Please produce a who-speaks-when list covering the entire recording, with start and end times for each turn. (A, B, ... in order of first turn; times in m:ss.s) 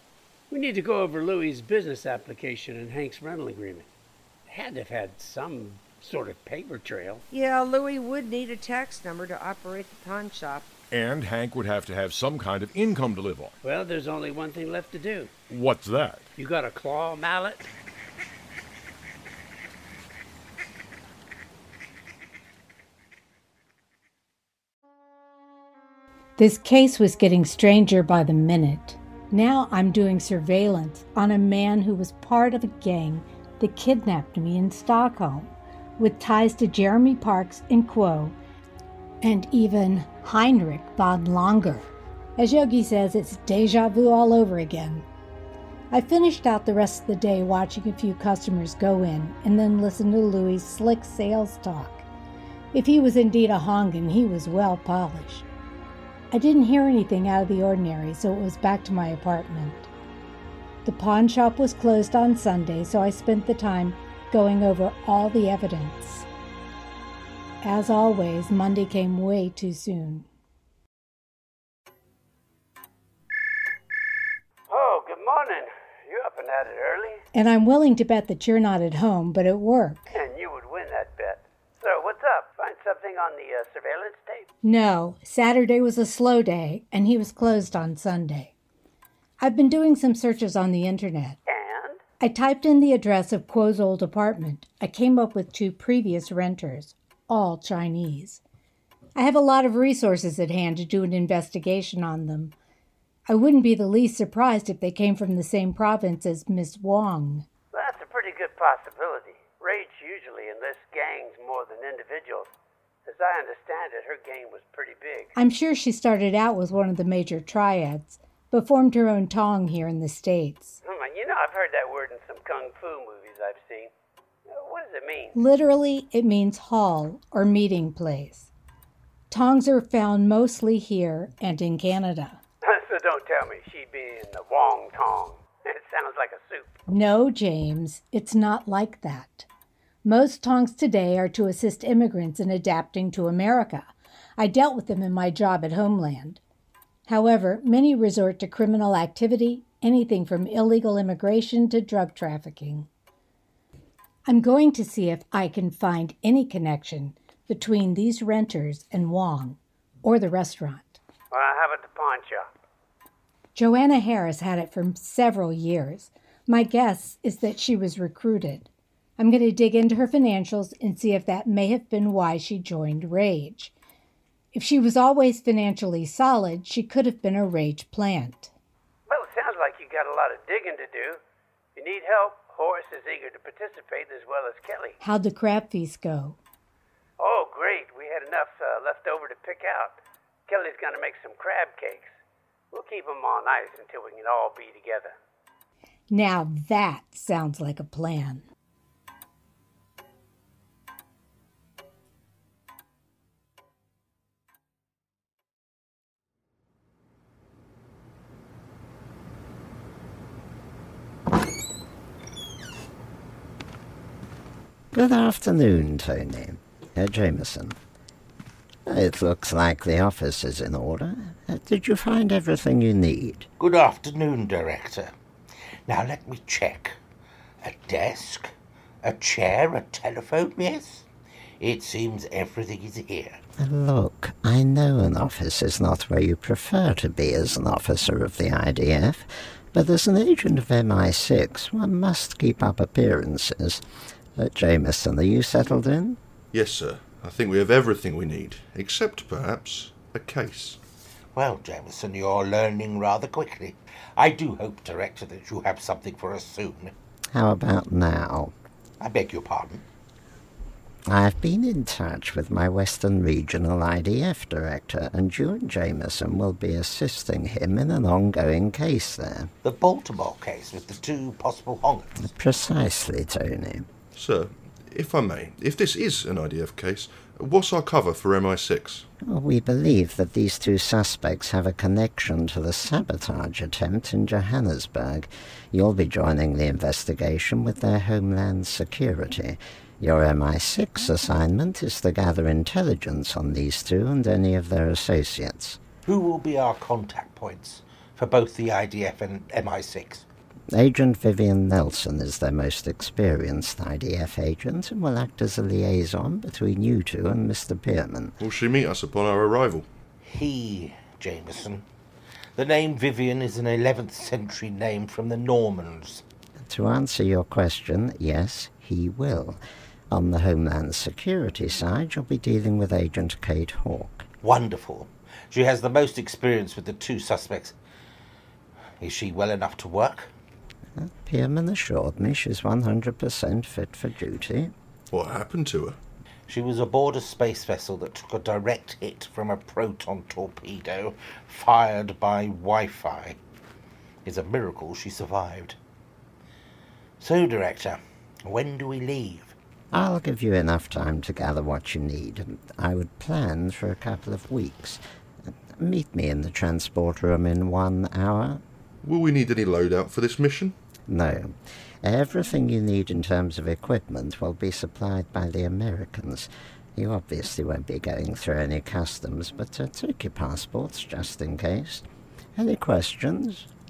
0:00.5-0:03.9 A
0:04.5-0:07.2 A
0:07.3-0:10.7 B
0:10.9-0:13.6 C
0:13.6-0:15.3 A
0:15.5-0:16.2 C
0:16.4-0:17.7 A
0:26.4-0:38.4 D
0:39.2-0:45.0 D
0:45.9-0:52.0 D
0:52.7-0:55.4 D
0:56.3-0:59.9 D
1:00.8-1:06.3 D
1:07.6-1:10.2 D
1:14.7-1:17.2 A
1:17.3-1:20.1 D
1:20.1-1:24.5 A
1:24.6-1:28.5 D
1:29.4-1:31.4 D
1:31.5-1:32.0 A
1:32.2-1:38.4 D
1:39.2-1:42.5 D
1:43.3-1:47.4 D
1:47.7-1:52.5 A
1:53.0-1:55.3 A
1:55.3-2:00.8 D
2:00.8-2:03.9 A
2:04.5-2:05.3 A
2:05.3-2:08.5 D
2:09.3-2:12.4 D
2:12.6-2:16.8 A
2:16.9-2:19.5 D
2:20.0-2:26.4 D
2:27.1-2:32.9 D
2:34.3-2:41.0 D
2:41.3-2:42.5 A
2:43.5-2:48.7 D
2:49.2-2:53.7 D
2:54.5-2:58.5 D
2:59.1-3:01.2 A
3:01.8-3:05.0 A
3:05.0-3:06.4 D
3:07.2-3:12.1 A
3:12.7-3:15.2 A
3:16.1-3:18.4 D
3:34.9-3:37.8 E
3:38.8-3:43.5 E
3:43.6-3:45.1 F
3:45.9-3:47.0 F
3:47.6-3:48.5 F
3:49.0-3:51.1 F
3:51.6-3:53.4 F
3:53.6-4:03.8 E
4:04.4-4:06.2 E
4:06.5-4:10.8 G
4:11.3-4:16.9 F
4:17.3-4:18.5 E
4:19.0-4:19.8 F
4:21.1-4:29.5 E
4:29.6-4:32.1 F
4:32.2-4:33.9 E
4:34.1-4:39.0 G
4:39.2-4:55.8 E
4:56.0-5:00.2 F
5:00.7-5:08.4 E
5:08.4-5:09.8 G
5:10.2-5:11.8 F
5:12.6-5:16.2 F
5:16.6-5:24.3 E
5:24.4-5:27.8 F
5:29.0-5:30.3 F
5:31.0-5:34.7 E
5:35.1-5:36.0 G
5:36.5-5:43.4 F
5:44.2-5:45.8 F
5:47.2-5:49.5 F
5:49.9-5:55.0 E
5:55.7-5:58.6 E
5:59.0-6:00.8 G
6:01.1-6:12.0 E
6:12.6-6:13.7 E